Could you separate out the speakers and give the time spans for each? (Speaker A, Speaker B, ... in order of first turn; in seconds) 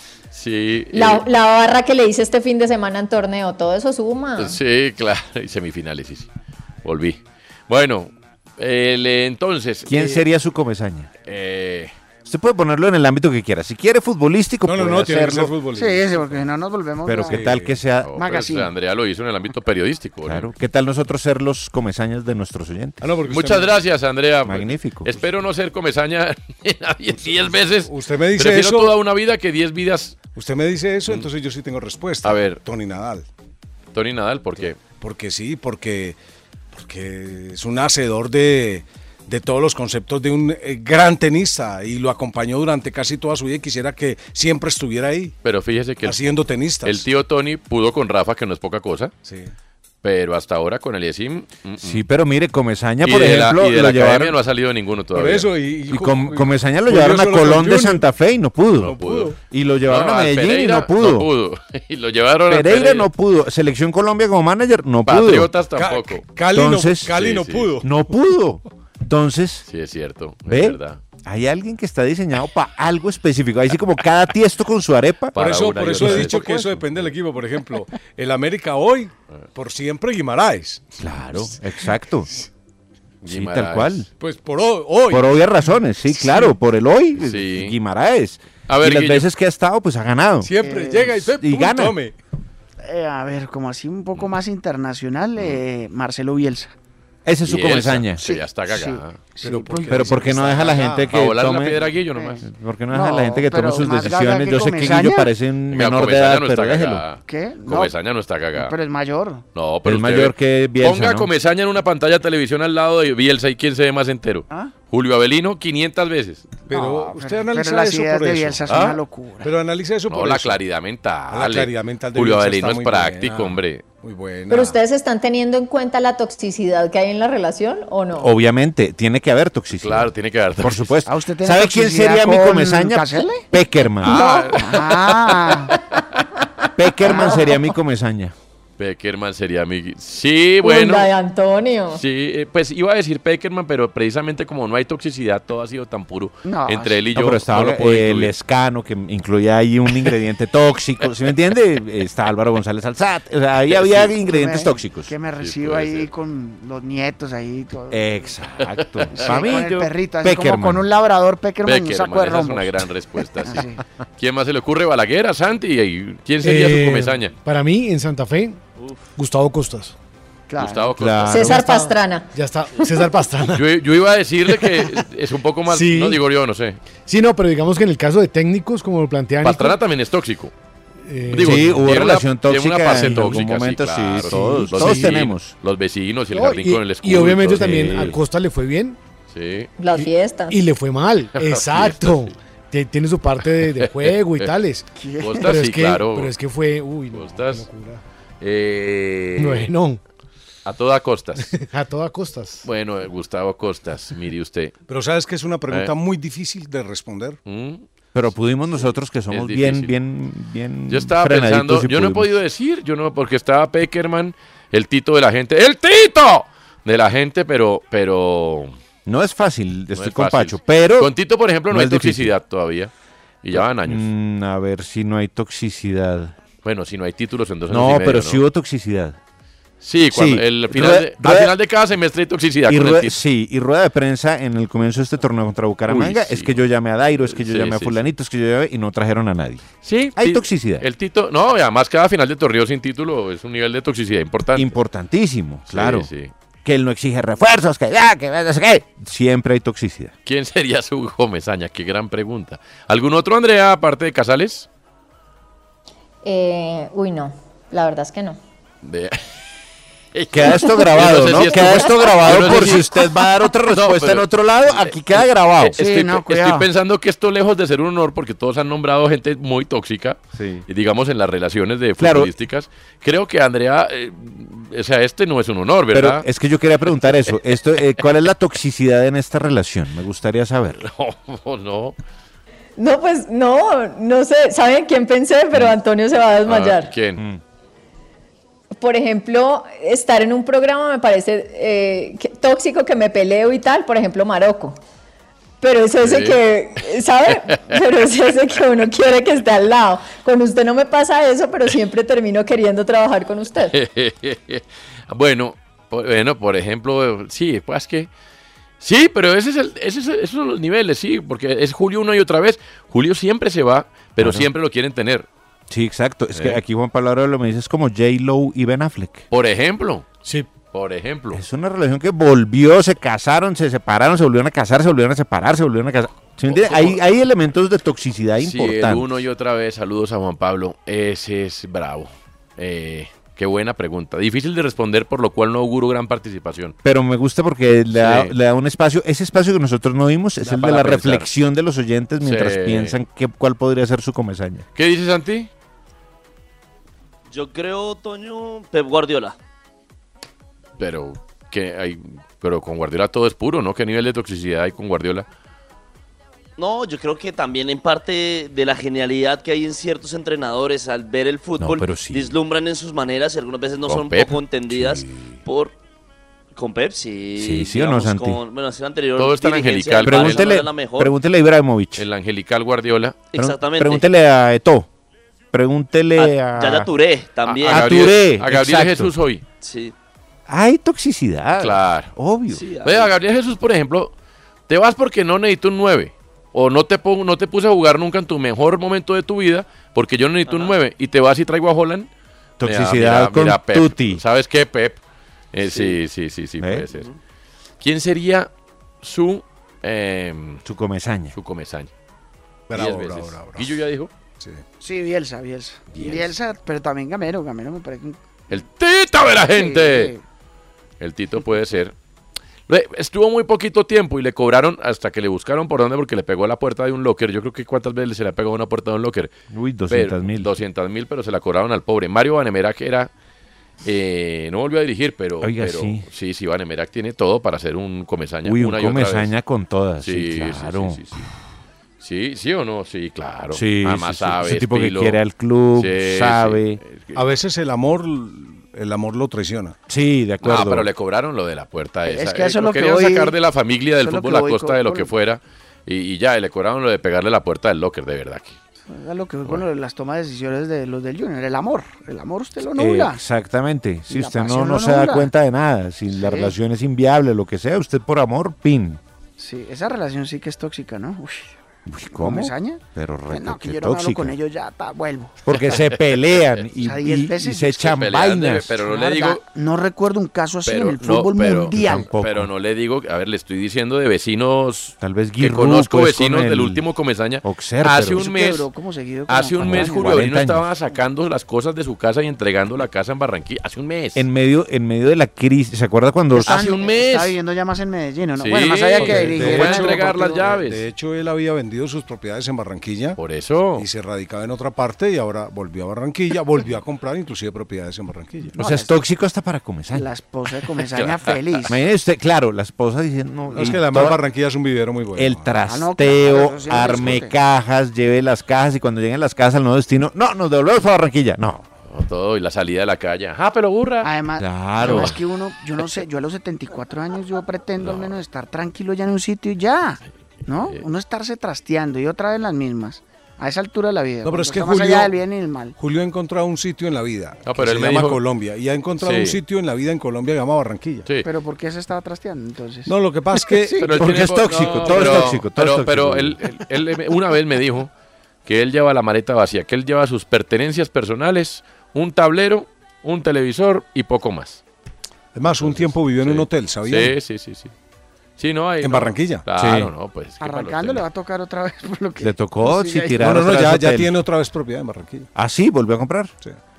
Speaker A: 0.3-1.2, 4.4-6.3, 6.8-10.2, 11.2-11.9, 18.0-20.5, 23.3-30.2, 32.2-32.6, 33.9-34.8, 45.4-46.2, 46.8-49.1, 50.0-52.0, 53.0-55.5, 58.8-59.3, 59.9-63.1, 65.0-66.2, 67.1-67.7, 69.7-71.0, 75.3-77.0, 83.2-84.0, 87.2-87.7, 88.7-89.3, 97.4-99.6, 101.1-102.4, 105.7-108.7, 109.5-116.5, 118.7-119.0, 120.1-123.8, 129.8-130.9, 134.0-135.7, 138.8-141.1, 141.9-148.3, 153.7-154.1, 155.4-156.1, 159.2-159.5, 161.6-163.7, 164.2-167.3, 170.6-171.4, 173.5-176.8, 179.4-180.5, 181.3-188.1, 189.3-189.7, 191.3-192.3, 193.6-194.5, 195.2-196.3, 197.1-197.7, 198.4-199.7, 200.7-201.5, 202.6-204.7, 207.5-207.8, 208.7-209.9, 210.9-218.7, 219.9-222.9, 223.4-224.1, 226.6-228.4, 229.8-233.2, 235.9-236.6, 237.3-238.0, 239.8-244.7, 245.7-246.3, 250.2-254.7, 258.8-259.2, 260.1-263.0, 263.7-276.2, 280.8-281.9, 286.5-287.2, 296.0-296.4, 303.6-308.1, 308.8-315.3, 316.3-316.6, 319.3-320.1, 320.7-321.4, 326.5-327.0, 328.4-336.7, 337.9-338.3, 340.4-341.3, 342.2-343.0, 344.8-345.5, 350.8-355.2, 363.9-364.4, 369.2-370.5, 371.9-373.2, 377.4-379.4, 381.6-382.1, 382.8-384.1, 384.7-392.1, 392.6-395.0, 395.5-397.1, 397.8-398.5, 399.0-400.6, 401.3-401.9, 402.7-404.1, 405.9-406.3, 408.5-410.1, 411.0-411.9, 412.7-419.3, 419.9-423.1, 423.8-429.3, 430.0-431.3, 432.0-435.2, 435.8-437.2, 440.4-448.6, 465.5-466.4, 467.8-469.4, 470.6-478.7, 479.3-484.2, 486.4-487.4, 488.4-490.8, 493.2-493.9, 511.9-514.1, 514.8-515.1, 517.8-518.2, 520.6-520.8, 527.5-528.2, 529.0-529.4, 533.8-537.9, 538.5-544.6, 545.6-547.7, 548.4-551.0
Speaker B: 0.9-4.6, 124.5-128.3, 137.1-137.5, 140.6-142.0, 171.3-172.3, 189.8-190.6, 256.2-258.4, 282.8-286.9, 288.8-294.8, 295.6-303.7
Speaker C: 9.8-11.1, 12.2-15.5, 17.0-18.1, 20.2-23.0, 24.4-25.1, 51.8-54.3, 55.9-61.3, 62.5-65.5, 66.5-67.2, 67.8-69.7, 70.5-75.4, 75.9-76.6, 81.0-82.3, 83.2-84.1, 85.1-90.5, 91.2-91.9, 97.2-98.2, 99.9-101.8, 102.4-107.0, 109.8-111.3, 128.2-134.2, 136.8-138.3, 147.1-155.1, 157.9-160.8, 170.9-171.6, 181.4-185.5, 187.5-188.2, 208.1-212.4, 219.1-221.1, 221.7-222.3, 223.5-226.3, 227.7-229.2, 230.1-231.5, 232.7-240.8, 244.5-246.1, 246.6-250.1, 260.3-265.8, 270.3-270.6, 272.0-272.3, 275.9-280.8, 314.2-314.5, 315.7-319.2, 321.3-329.1, 336.8-344.6, 361.6-362.3, 364.7-365.3, 367.4-368.4, 370.0-372.1, 373.4-374.9, 375.5-376.9, 377.6-379.1, 380.5-382.6, 392.6-394.2, 396.6-396.9, 400.6-401.3, 419.5-420.5, 425.4-426.0, 428.4-431.0, 433.5-436.8, 439.9-440.9, 452.7-459.0, 461.9-464.4, 465.4-468.8, 471.7-472.5, 475.0-476.8, 477.4-478.2, 479.6-480.7, 484.1-486.6, 498.6-500.1, 501.7-504.2, 505.2-511.6, 514.4-515.1, 533.9-536.4, 549.6-549.9, 552.2-554.1, 555.3-556.3
Speaker D: 14.6-16.4, 17.3-17.7, 23.0-23.8, 27.9-28.9, 30.3-33.2, 34.8-36.1, 36.7-45.3, 46.0-47.0, 49.2-49.5, 55.1-58.0, 58.8-59.4, 65.8-67.9, 75.3-80.9, 84.2-85.3, 90.4-92.1, 99.4-101.1, 116.7-118.7, 119.4-120.6, 121.3-124.8, 204.9-207.4, 402.7-403.8, 437.1-439.8, 489.0-493.2, 493.8-498.5, 503.5-505.5, 524.2-525.1, 525.8-531.1, 532.9-533.9, 534.9-535.2, 545.3-547.1, 548.8-549.4, 553.2-555.3
Speaker E: 15.7-17.5, 18.2-18.7, 90.6-91.1, 92.8-96.7, 98.2-100.3, 102.1-105.3, 107.3-107.9, 108.5-109.4, 116.7-119.5, 131.1-133.4, 134.0-135.7, 137.1-137.3, 146.4-147.0, 154.2-158.3, 159.1-162.7, 163.4-163.8, 170.5-170.9, 195.0-195.6, 265.8-266.7, 404.8-408.2, 409.5-410.2, 442.1-443.3, 444.0-445.1, 448.9-453.2, 454.1-455.3, 456.1-456.5, 459.4-461.6, 462.1-465.4, 466.8-467.8, 468.8-472.1, 478.1-480.2, 486.4-490.6, 498.5-499.0, 499.9-501.8, 505.6-507.3, 514.0-525.8, 531.2-533.8, 550.4-553.3
Speaker F: 166.4-168.6, 169.2-169.9, 171.3-173.7, 174.4-175.0, 175.7-176.2, 177.1-179.8, 181.0-182.0, 182.9-183.4, 184.3-185.2, 186.3-189.0, 189.9-194.9, 195.4-198.0, 199.4-200.0, 201.4-202.7
Speaker G: 347.3-349.4, 356.6-365.7, 366.6-371.2, 373.3-374.1, 376.2-378.0, 379.6-379.9, 382.5-383.1, 390.4-390.8, 395.6-396.0